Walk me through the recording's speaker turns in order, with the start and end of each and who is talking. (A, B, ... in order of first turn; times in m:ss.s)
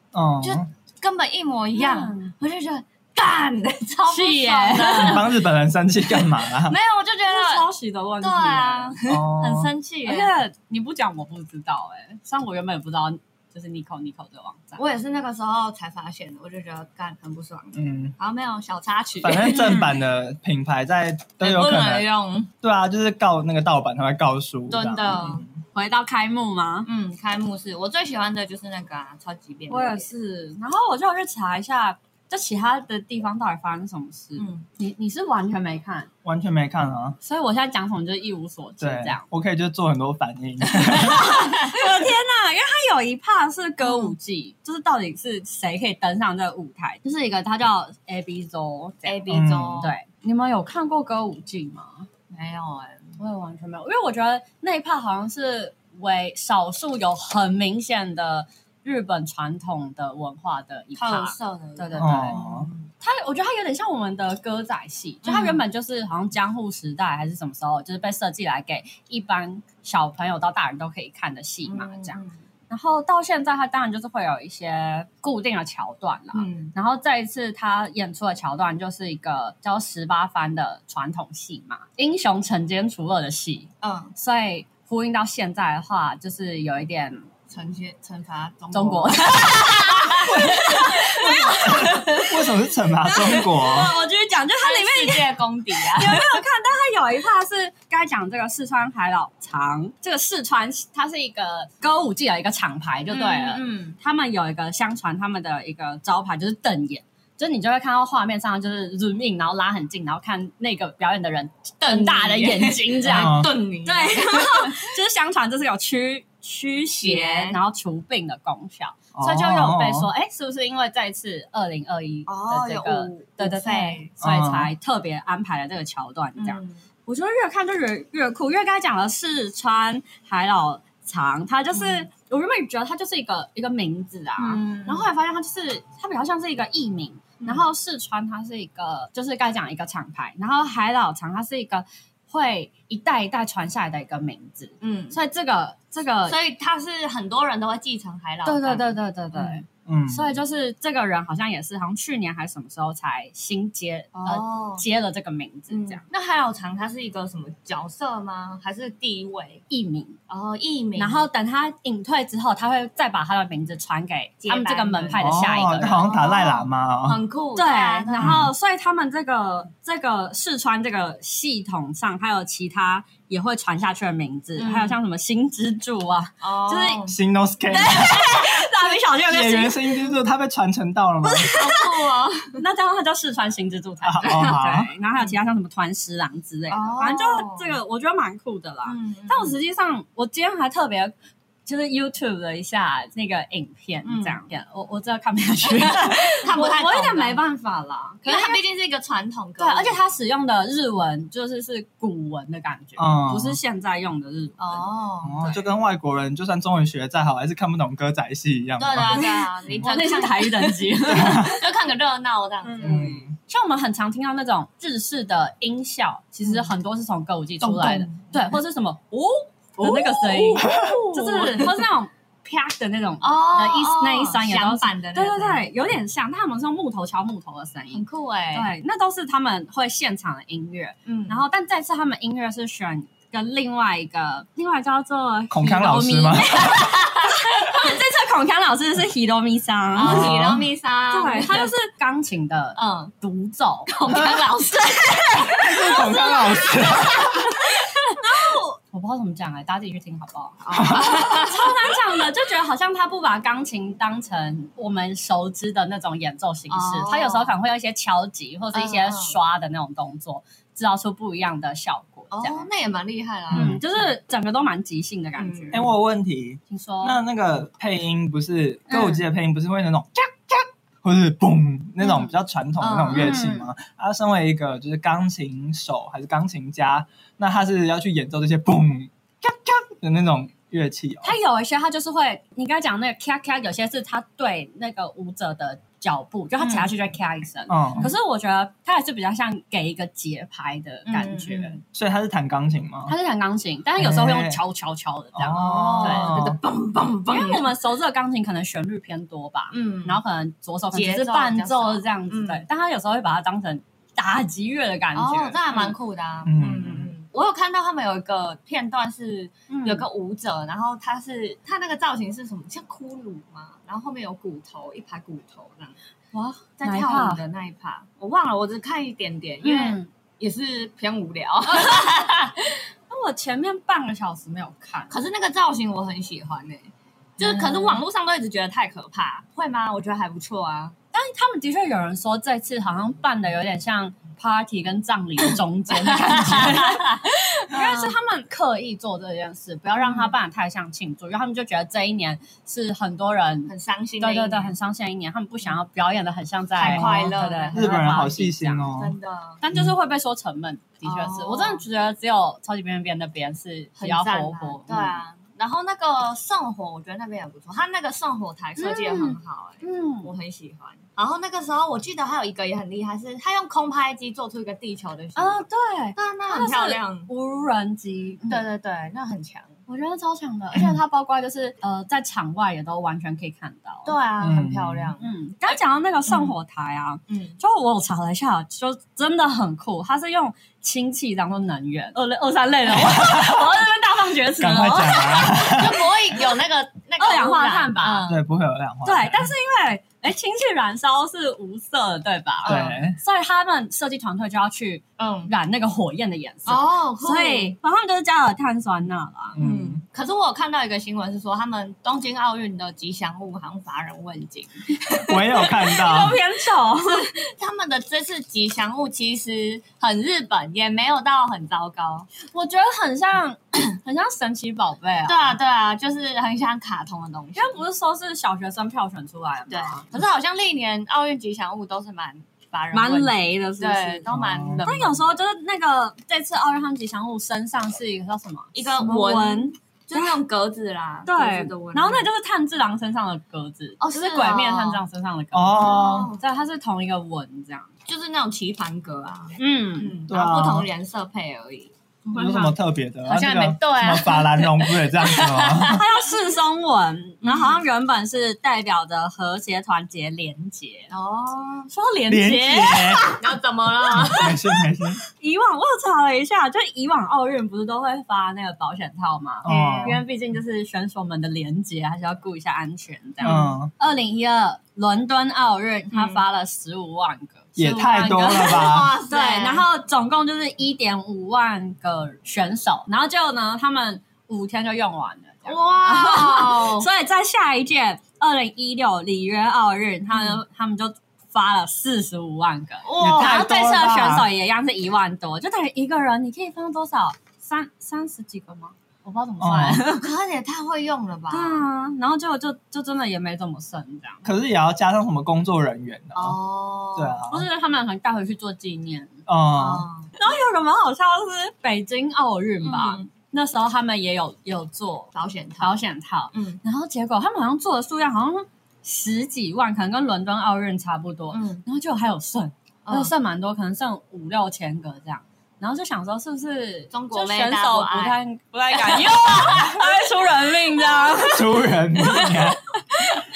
0:00.1-0:00.7 A
0:00.4-0:05.3 B
0:01.7-0:02.3 C
0:04.1-0:05.2 C
0:05.0-0:06.8 A
0:06.1-0:07.7 B
0:07.2-0:09.0 C
0:08.2-0:10.3 B
0:09.1-0:09.7 A
0:10.0-0:14.8 C
0:14.8-0:19.9 B
0:17.7-0:18.1 A
0:19.2-0:22.1 A
0:19.4-0:20.0 C
0:21.4-0:22.5 B
0:22.6-0:25.6 A
0:24.7-0:25.4 B
0:25.7-0:26.9 C
0:26.8-0:30.1 B
0:29.7-0:36.1 C
0:34.4-0:34.6 B
0:36.2-0:37.2 A
0:37.2-0:39.2 C
0:38.8-0:41.3 A
0:40.9-0:52.1 C
0:41.1-0:41.8 B
0:43.8-0:44.1 B
0:49.0-0:49.9 B
0:49.3-0:49.9 A
0:52.3-0:53.1 B
0:53.2-1:02.4 C
1:01.0-1:02.9 B
1:02.0-1:02.7 A
1:03.0-1:27.3 C
1:05.2-1:05.6 B
1:11.6-1:12.4 B
1:16.3-1:16.7 B
1:23.8-1:24.1 B
1:27.5-1:32.0 B
1:28.7-1:32.3 C
1:30.3-1:30.6 A
1:31.6-1:33.9 A
1:33.1-1:35.3 C
1:34.5-1:36.4 B
1:35.8-2:26.4 C
1:43.1-1:44.0 B
1:51.8-1:54.9 B
1:53.0-1:53.6 A
1:57.0-1:57.6 B
1:59.1-2:00.1 A
2:02.3-2:04.1 B
2:04.2-2:04.7 A
2:06.4-2:06.8 B
2:11.7-2:12.1 B
2:14.4-2:15.1 B
2:17.4-2:17.6 B
2:24.8-2:25.2 B
2:26.3-2:29.6 B
2:28.4-2:36.0 C
2:29.8-2:30.3 A
2:34.1-2:34.8 B
2:35.7-2:39.6 B
2:39.7-2:40.2 C
2:40.3-2:41.3 B
2:41.0-2:46.0 C
2:44.4-2:48.4 B
2:45.2-2:47.2 A
2:47.6-2:57.1 C
2:48.2-2:48.5 A
2:54.6-2:55.0 B
2:56.4-2:57.2 B
2:57.1-2:58.6 A
2:57.7-3:00.1 C
2:59.2-3:01.5 A
3:01.2-3:01.9 C
3:01.5-3:02.6 B
3:02.6-3:11.1 C
3:04.0-3:04.9 A
3:04.2-3:04.6 B
3:06.7-3:07.7 B
3:08.8-3:09.6 B
3:11.6-3:18.6 C
3:14.0-3:14.4 B
3:15.6-3:17.4 B
3:18.2-3:20.0 B
3:19.6-3:24.8 C
3:23.0-3:23.6 A
3:24.6-3:25.6 B
3:25.2-3:29.8 A
3:28.8-3:33.2 B
3:29.1-3:31.6 C
3:31.1-3:31.5 A
3:32.6-4:00.4 C
3:32.8-3:33.4 A
3:36.4-3:36.7 B
3:37.6-3:38.4 B
3:39.8-3:41.8 B
3:40.6-3:41.0 A
3:43.2-3:45.6 B
3:47.9-3:48.7 B
3:51.0-3:51.4 B
3:55.5-3:56.7 A
3:59.9-4:01.7 B
4:00.0-4:00.6 A
4:01.1-4:04.0 C
4:02.8-4:03.1 B
4:03.9-4:07.9 B
4:05.5-4:07.6 A
4:05.9-4:06.4 C
4:07.6-4:22.7 C
4:10.6-4:11.8 B
4:10.7-4:11.2 A
4:16.7-4:17.6 B
4:18.7-4:19.4 B
4:22.3-4:23.7 B
4:23.5-4:23.8 A
4:23.5-4:25.8 C
4:25.4-4:25.9 B
4:25.7-4:41.3 A
4:26.7-4:27.2 C
4:28.9-4:29.2 C
4:32.0-4:33.4 B
4:33.1-4:33.7 C
4:41.2-4:51.8 C
4:46.6-4:46.9 B
4:47.7-4:48.1 A
4:51.0-4:51.8 B
4:51.9-4:53.1 A
4:53.1-4:56.4 C
4:54.0-4:54.6 A
4:55.3-4:56.6 A
4:55.6-4:57.6 B
4:57.2-5:06.0 C
4:59.7-5:00.2 B
5:00.9-5:02.6 B
5:05.1-5:15.9 B
5:06.4-5:07.1 A
5:09.7-5:10.0 C
5:16.3-5:17.4 C
5:16.8-5:22.8 B
5:19.6-5:20.1 C
5:21.7-5:22.0 C
5:23.1-5:25.1 C
5:25.1-5:31.0 B
5:27.4-5:28.0 C
5:31.1-5:48.9 C
5:35.9-5:38.1 B
5:40.0-5:40.3 B
5:43.7-5:44.7 B
5:46.8-5:48.2 B
5:46.8-5:47.2 A
5:47.7-5:49.2 A
5:48.9-5:49.6 B
5:49.6-5:55.2 C
5:51.0-5:51.8 B
5:54.0-6:07.3 B
5:58.8-6:00.3 C
6:05.4-6:08.6 C
6:08.5-6:09.8 B
6:09.9-6:14.2 C
6:14.0-6:15.7 B
6:14.4-6:15.1 A
6:15.2-6:25.6 C
6:16.3-6:16.5 B
6:17.3-6:17.6 B
6:23.0-6:23.7 A
6:24.6-6:26.1 A
6:25.4-6:28.4 B
6:27.2-6:28.2 C
6:28.2-6:29.5 A
6:29.0-6:39.6 C
6:32.6-6:33.0 B
6:32.6-6:33.2 A
6:35.2-6:35.5 B
6:36.6-6:37.8 B
6:39.6-6:40.0 A
6:39.6-6:45.7 B
6:45.2-6:46.4 A
6:45.8-6:47.3 C
6:47.0-6:52.3 B
6:52.4-6:55.6 C
6:55.3-6:57.8 B
6:57.5-7:00.0 C
6:59.7-7:05.3 B
7:02.9-7:04.2 C
7:04.3-7:04.9 A
7:04.8-7:10.3 C
7:08.7-7:12.3 B
7:11.2-7:17.9 C
7:14.0-7:15.0 B
7:15.5-7:16.3 A
7:15.8-7:16.4 B
7:18.1-7:22.7 B
7:19.6-7:20.2 C
7:20.3-7:20.9 A
7:22.3-7:22.7 C
7:22.3-7:26.0 A
7:23.2-7:26.0 B
7:25.8-7:31.1 C
7:27.4-7:27.8 B
7:31.1-7:31.9 B
7:31.9-7:33.4 C
7:32.3-7:33.3 A
7:33.3-7:34.7 B
7:34.1-7:35.2 A
7:35.3-8:10.3 C
7:39.6-7:40.2 A
7:39.6-7:40.2 B
7:43.4-7:43.8 B
7:43.4-7:43.9 A
7:46.1-7:46.4 B
7:47.8-7:49.1 A
7:48.4-7:49.8 B
7:55.6-7:57.1 B
8:00.3-8:00.6 B
8:03.0-8:03.7 B
8:03.2-8:04.5 A
8:09.6-8:10.0 A
8:10.1-8:11.8 B
8:11.5-8:14.5 C
8:14.4-8:16.6 A
8:16.3-8:17.4 B
8:17.1-8:17.6 A
8:17.5-8:19.4 C
8:19.5-8:20.1 A
8:19.7-8:20.3 B
8:20.4-8:42.6 C
8:22.8-8:23.3 B
8:25.3-8:26.0 B
8:26.5-8:26.8 B
8:31.5-8:31.8 B
8:33.0-8:33.3 B
8:37.1-8:38.4 B
8:38.9-8:39.9 B
8:41.5-8:42.8 A
8:43.1-8:43.4 C